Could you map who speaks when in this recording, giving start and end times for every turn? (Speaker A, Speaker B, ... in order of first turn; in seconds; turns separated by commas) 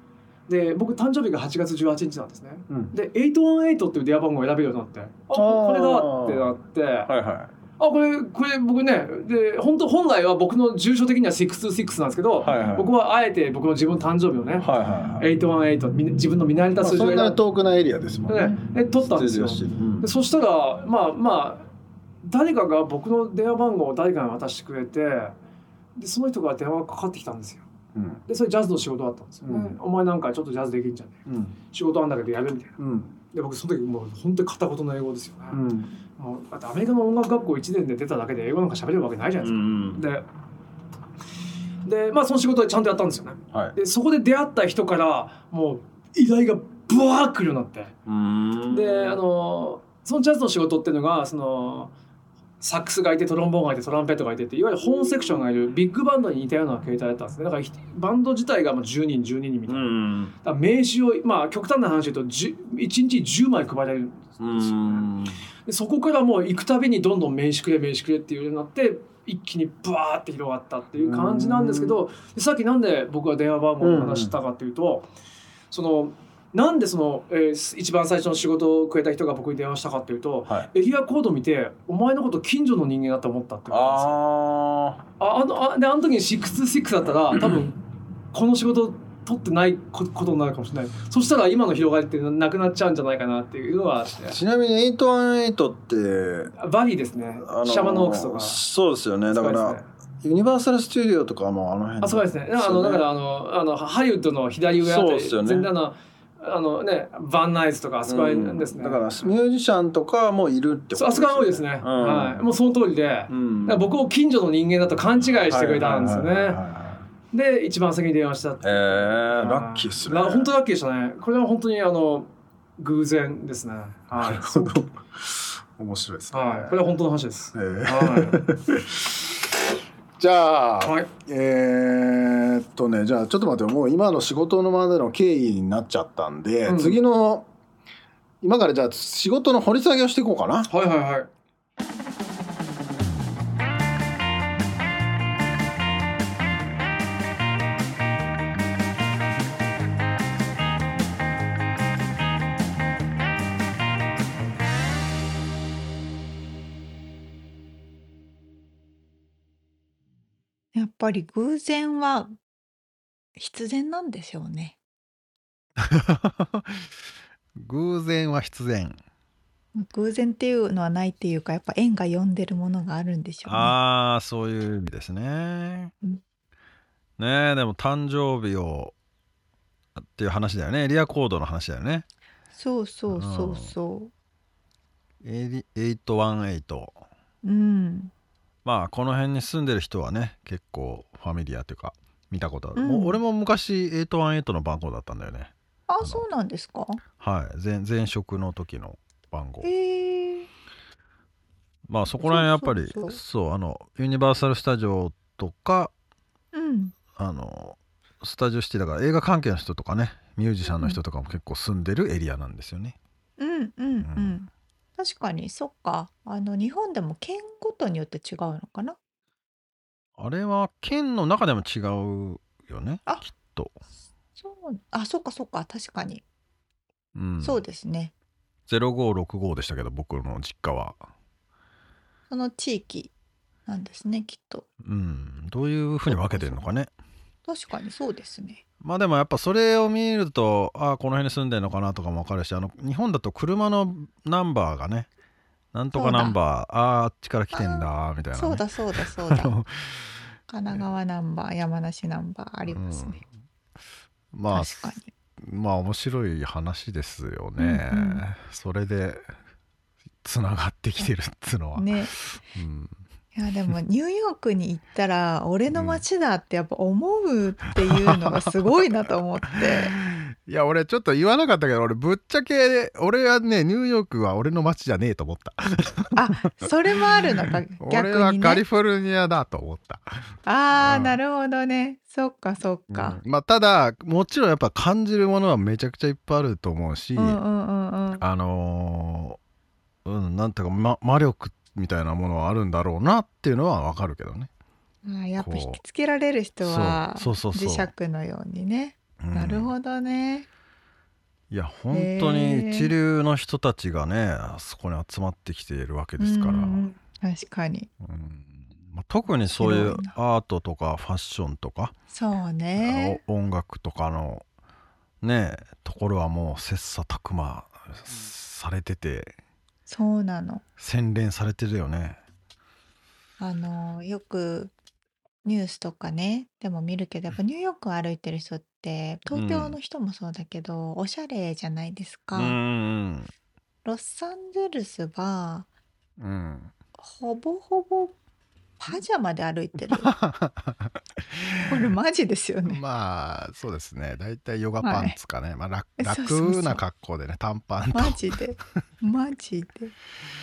Speaker A: 0.5-7.1, Speaker B: 5.3-7.5, Speaker A: 7.8-17.4, Speaker B: 12.4-12.9, Speaker B: 14.6-15.3, Speaker B: 16.8-20.1, Speaker A: 18.3-21.7, Speaker A: 22.2-25.3, Speaker A: 25.9-27.7, Speaker B: 27.9-28.2, Speaker A: 28.3-35.6, Speaker B: 29.4-29.8, Speaker B: 31.3-31.5, Speaker B: 32.8-33.1, Speaker B: 35.5-35.9, Speaker A: 36.2-40.2, Speaker B: 39.4-40.0, Speaker A: 41.8-48.0, Speaker B: 48.1-49.2, Speaker A: 48.7-51.9, Speaker A: 52.6-65.1, Speaker B: 55.0-55.4, Speaker B: 59.7-60.3, Speaker B: 64.4-65.4, Speaker A: 65.6-75.1, Speaker B: 71.0-72.0, Speaker B: 73.8-74.3, Speaker A: 75.7-84.2, Speaker B: 83.7-85.0, Speaker A: 85.2-94.4, Speaker B: 94.3-96.5, Speaker A: 96.6-98.6, Speaker B: 97.4-103.0, Speaker A: 99.3-99.9, Speaker A: 102.0-109.2, Speaker B: 104.8-105.7, Speaker B: 108.0-112.4, Speaker A: 110.9-116.6, Speaker B: 113.3-113.9, Speaker B: 115.5-117.0, Speaker A: 117.3-124.8, Speaker B: 118.6-120.5, Speaker B: 124.1-126.8, Speaker A: 126.3-128.4, Speaker B: 127.5-129.1, Speaker B: 130.2-137.5, Speaker A: 130.8-131.1, Speaker A: 136.7-137.0, Speaker B: 138.4-140.7, Speaker A: 140.7-141.3, Speaker C: 160.7-162.3, Speaker C: 163.4-164.8, Speaker B: 165.8-166.9, Speaker B: 167.6-169.0, Speaker C: 169.7-173.8, Speaker B: 173.4-175.9, Speaker B: 177.2-178.9, Speaker B: 179.9-182.1, Speaker C: 182.5-184.1, Speaker B: 183.1-183.7, Speaker B: 185.2-187.0, Speaker C: 187.4-188.1, Speaker B: 188.6-196.2, Speaker C: 192.7-193.2, Speaker C: 195.9-197.0, Speaker B: 197.2-199.7, Speaker C: 199.6-200.5, Speaker B: 201.9-205.9, Speaker C: 202.2-203.2, Speaker C: 206.5-206.9, Speaker B: 207.2-212.9, Speaker C: 213.4-219.0, Speaker B: 214.0-214.4, Speaker B: 220.2-223.8, Speaker C: 224.4-226.2, Speaker B: 227.1-227.6, Speaker C: 227.4-228.1, Speaker B: 228.7-231.0, Speaker C: 232.3-233.1, Speaker C: 233.7-234.7, Speaker B: 234.8-236.9, Speaker C: 236.1-236.6, Speaker C: 237.5-238.6, Speaker B: 238.8-245.1, Speaker B: 245.7-250.2, Speaker C: 245.9-246.4, Speaker C: 247.5-249.5, Speaker C: 250.5-253.2, Speaker B: 252.7-253.3, Speaker B: 254.3-254.8, Speaker C: 254.5-255.1, Speaker B: 255.4-259.3, Speaker C: 257.6-258.2, Speaker B: 260.2-263.0, Speaker C: 261.7-262.1, Speaker C: 263.3-269.9, Speaker B: 265.7-266.0, Speaker B: 269.6-276.7, Speaker C: 276.1-278.6, Speaker B: 277.4-281.2, Speaker C: 280.4-283.2, Speaker B: 282.9-287.4, Speaker C: 287.1-288.2, Speaker B: 288.2-289.4, Speaker B: 290.0-294.5, Speaker C: 295.0-300.5, Speaker B: 295.4-295.8, Speaker B: 296.6-297.9, Speaker B: 299.2-299.7, Speaker B: 301.5-306.9, Speaker C: 301.9-302.9, Speaker C: 306.2-307.9, Speaker B: 308.0-311.9, Speaker C: 309.3-310.1, Speaker C: 312.1-313.2, Speaker B: 312.8-314.4, Speaker B: 315.2-319.4, Speaker C: 319.9-320.6, Speaker B: 320.8-322.2, Speaker C: 323.4-324.7, Speaker C: 325.4-332.6, Speaker B: 329.3-329.8, Speaker B: 332.3-333.3, Speaker C: 333.8-335.7, Speaker B: 336.2-336.7, Speaker C: 337.0-338.1, Speaker C: 338.8-340.1, Speaker B: 339.9-341.9, Speaker C: 341.7-342.8, Speaker B: 342.6-348.2, Speaker C: 344.8-345.2, Speaker C: 346.0-346.8, Speaker C: 347.9-349.9